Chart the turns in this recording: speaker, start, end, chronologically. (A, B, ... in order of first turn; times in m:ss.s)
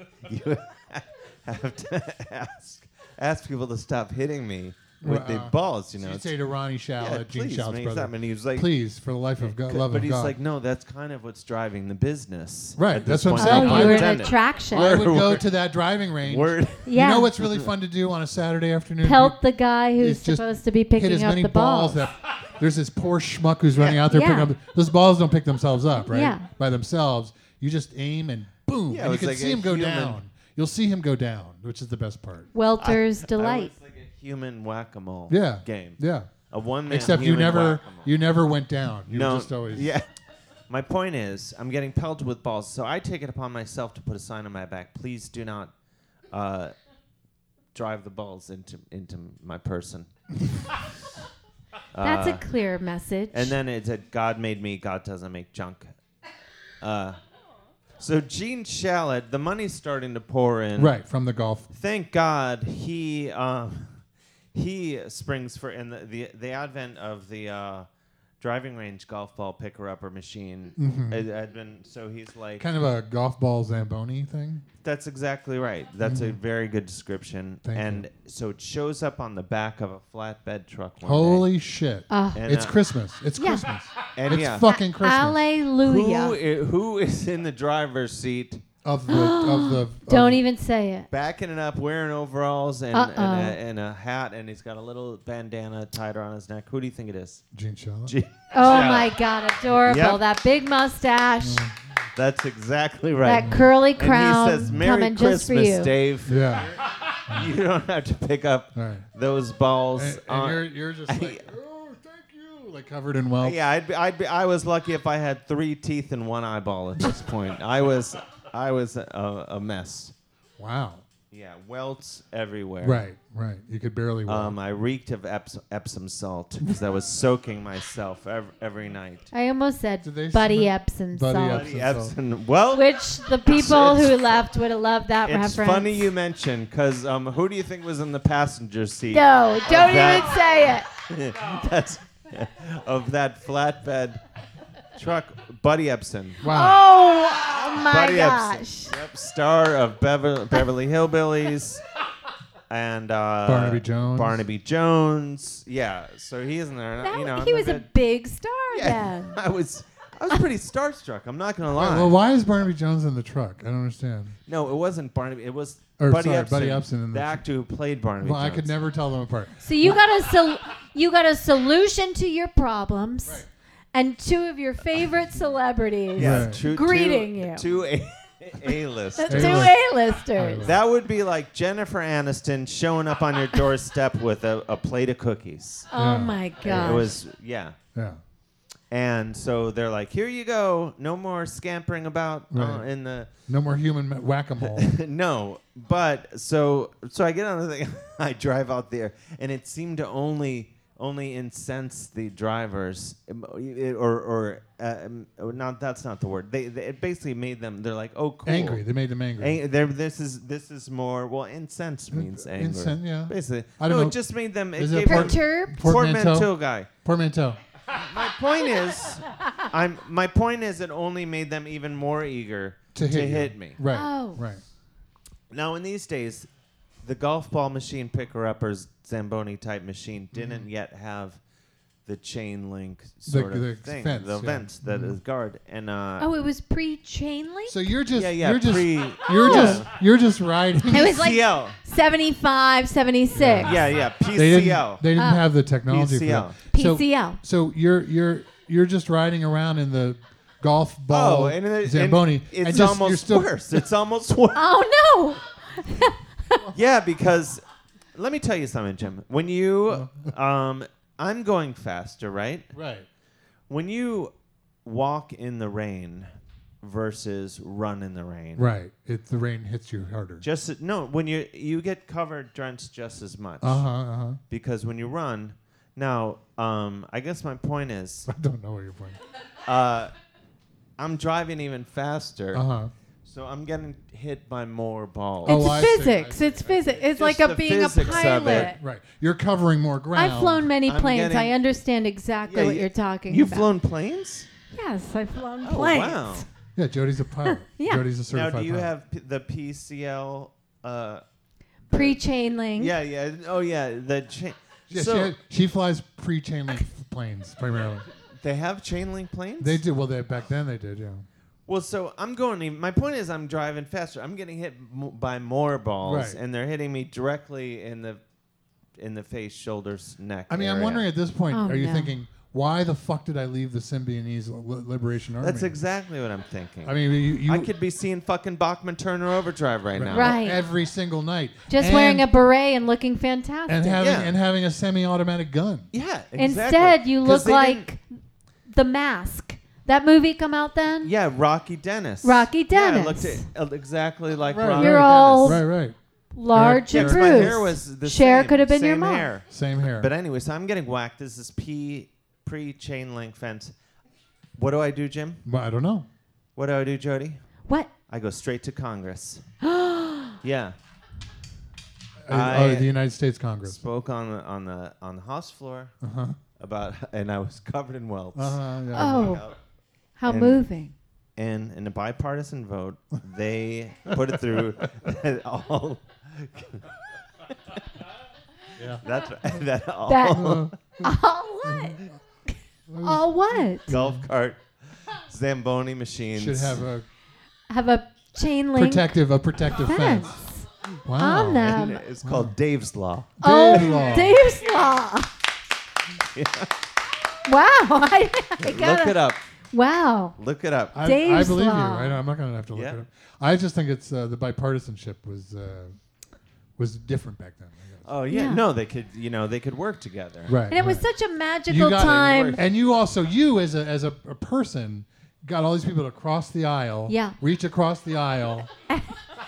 0:00.2-0:06.3 A
0:05.0-0:10.4 B
0:07.0-0:08.7 A
0:09.4-0:15.5 A
0:12.8-0:19.4 B
0:13.3-0:15.0 C
0:16.2-0:16.9 A
0:16.8-0:17.3 C
0:19.0-0:22.0 C
0:20.0-0:20.4 B
0:20.9-0:32.5 B
0:23.8-0:24.0 A
0:24.0-0:24.5 C
0:26.1-0:26.4 C
0:28.9-0:30.2 A
0:32.5-0:33.7 C
0:32.8-0:38.1 A
0:35.3-0:36.3 B
0:36.9-0:39.9 B
0:39.1-0:40.1 A
0:40.7-0:45.7 A
0:46.3-0:46.7 A
0:47.7-0:50.1 A
0:51.9-0:52.4 A
0:52.0-0:53.6 C
0:53.3-0:56.0 A
0:56.8-0:57.2 A
0:58.0-1:01.0 A
1:00.7-1:01.7 B
1:01.7-1:04.0 A
1:04.5-1:07.9 A
1:08.4-1:12.6 A
1:10.8-1:11.2 B
1:12.6-1:14.6 B
1:14.8-1:21.5 A
1:16.0-1:16.4 B
1:17.6-1:18.0 B
1:21.0-1:25.4 B
1:22.1-1:22.4 C
1:22.3-1:22.8 A
1:23.4-1:23.6 C
1:24.1-1:24.7 A
1:24.6-1:26.4 C
1:25.8-1:28.6 A
1:28.8-1:30.4 B
1:29.1-1:31.1 C
1:31.1-1:37.4 A
1:32.9-1:33.6 C
1:37.5-1:38.1 B
1:38.0-1:39.1 A
1:38.5-1:41.6 C
1:39.8-1:40.2 A
1:41.4-1:41.7 B
1:42.1-1:46.7 A
1:43.2-1:45.9 C
1:43.4-1:43.7 B
1:46.2-1:46.7 B
1:47.3-1:51.5 A
1:48.7-1:49.0 B
1:49.9-1:53.6 B
1:53.4-2:00.1 A
2:00.6-2:01.0 B
2:01.3-2:03.0 A
2:02.8-2:04.6 B
2:04.2-2:09.3 A
2:09.3-2:11.7 C
2:10.0-2:12.1 B
2:11.5-2:12.9 A
2:12.7-2:16.1 C
2:13.4-2:14.2 A
2:15.2-2:24.2 A
2:19.1-2:20.8 C
2:24.9-2:26.4 A
2:26.4-2:26.8 B
2:26.4-2:28.9 C
2:27.8-2:31.8 A
2:32.7-2:37.8 A
2:33.4-2:34.4 B
2:37.0-2:39.4 C
2:38.7-2:42.2 A
2:41.7-2:44.4 B
2:44.5-2:48.7 A
2:46.0-2:47.4 B
2:48.2-2:50.0 B
2:49.6-2:57.7 C
2:56.1-2:59.7 A
2:56.2-2:56.6 B
2:59.2-3:00.7 C
2:59.3-2:59.8 B
3:00.4-3:00.8 B
3:00.6-3:05.9 A
3:05.9-3:07.2 C
3:05.9-3:07.1 B
3:06.6-3:07.8 A
3:07.9-3:08.2 B
3:08.9-3:13.3 A
3:12.5-3:12.8 B
3:13.5-3:14.9 B
3:14.6-3:28.8 A
3:28.4-3:29.6 B
3:29.4-3:36.9 A
3:32.1-3:34.2 B
3:34.7-3:37.6 B
3:35.0-3:35.7 C
3:37.9-3:43.8 A
3:42.9-3:44.6 B
3:43.9-3:44.4 C
3:45.5-3:46.5 A
3:47.0-3:51.4 A
3:50.3-3:50.6 B
3:52.0-3:56.3 A
3:53.3-3:55.2 B
3:56.2-3:57.9 C
3:57.7-4:01.2 B
3:58.1-3:59.9 A
3:59.3-3:59.8 C
4:00.9-4:01.8 A
4:00.9-4:03.8 C
4:03.3-4:13.8 B
4:03.6-4:05.0 A
4:05.2-4:05.5 C
4:05.9-4:06.6 A
4:06.7-4:07.4 C
4:11.1-4:14.6 A
4:14.5-4:16.6 C
4:16.7-4:17.6 A
4:18.1-4:22.7 A
4:19.9-4:20.3 B
4:22.7-4:23.1 B
4:23.7-4:24.3 A
4:24.8-4:28.7 A
4:28.6-4:30.4 B
4:30.4-4:33.8 A
4:33.6-4:34.4 B
4:34.5-4:38.3 A
4:38.3-4:39.2 B
4:39.6-4:40.1 A
4:41.0-4:42.6 A
4:42.5-4:42.9 B
4:43.2-4:45.9 A
4:45.4-4:46.9 B
4:45.4-4:48.8 C
4:47.1-4:48.7 A
4:48.0-4:50.7 B
4:50.1-4:53.7 C
4:50.8-4:51.5 A
4:52.4-4:54.5 A
4:54.7-4:56.4 C
4:55.6-4:56.4 A
4:56.8-4:58.9 B
4:57.4-4:58.0 C
4:58.3-5:01.2 A
5:01.9-5:02.2 A
5:01.9-5:02.9 C
5:02.7-5:05.3 A
5:04.9-5:08.0 B
5:08.4-5:09.8 A
5:09.6-5:11.3 B
5:11.7-5:18.2 A
5:16.0-5:16.4 B
5:19.0-5:21.0 A
5:20.5-5:25.8 B
5:21.5-5:22.1 C
5:25.4-5:30.4 A
5:26.8-5:27.7 B
5:29.9-5:32.2 B
5:30.1-5:30.6 C
5:31.7-5:34.0 C
5:33.7-5:35.9 B
5:34.0-5:34.3 A
5:35.9-5:37.9 A
5:36.4-5:38.0 C
5:38.7-5:41.1 C
5:41.0-5:45.6 A
5:42.2-5:43.4 C
5:44.5-5:46.0 B
5:44.7-5:45.6 C
5:46.3-5:49.3 C
5:46.5-5:47.6 B
5:46.9-5:53.7 A
5:49.5-5:50.1 B
5:54.6-5:55.4 A
5:55.4-5:56.1 B
5:56.6-5:57.4 A
5:58.1-5:59.4 A
5:59.6-6:00.4 C
6:00.4-6:00.8 A
6:02.2-6:03.8 B
6:02.3-6:02.9 A
6:03.6-6:05.9 A
6:06.0-6:06.4 B
6:06.6-6:09.6 A
6:08.3-6:09.4 B
6:08.9-6:09.4 C
6:10.2-6:10.9 C
6:10.2-6:10.6 A
6:11.4-6:16.9 A
6:18.8-6:19.0 B
6:19.0-6:20.7 A
6:20.1-6:22.0 C
6:20.3-6:21.1 B
6:21.6-6:22.1 B
6:22.9-6:24.2 B
6:23.0-6:23.9 C
6:23.9-6:26.8 A
6:26.3-6:27.0 B
6:27.7-6:29.1 C
6:28.8-6:30.4 B
6:29.8-6:32.0 C
6:31.0-6:32.5 B
6:31.6-6:34.3 A
6:33.4-6:34.4 B
6:33.4-6:35.3 C
6:36.3-6:36.8 A
6:37.4-6:39.2 C
6:38.6-6:39.4 A
6:39.7-6:40.4 C
6:40.4-6:41.0 A
6:40.9-6:46.0 B
6:41.0-6:42.2 C
6:42.7-6:43.0 A
6:46.8-6:48.1 B
6:48.0-6:50.6 A
6:48.3-6:48.6 C
6:50.5-6:51.1 B
6:50.7-6:52.6 C
6:51.7-6:58.7 B
6:52.0-6:52.6 A
6:57.1-6:57.4 C
6:58.9-6:59.2 C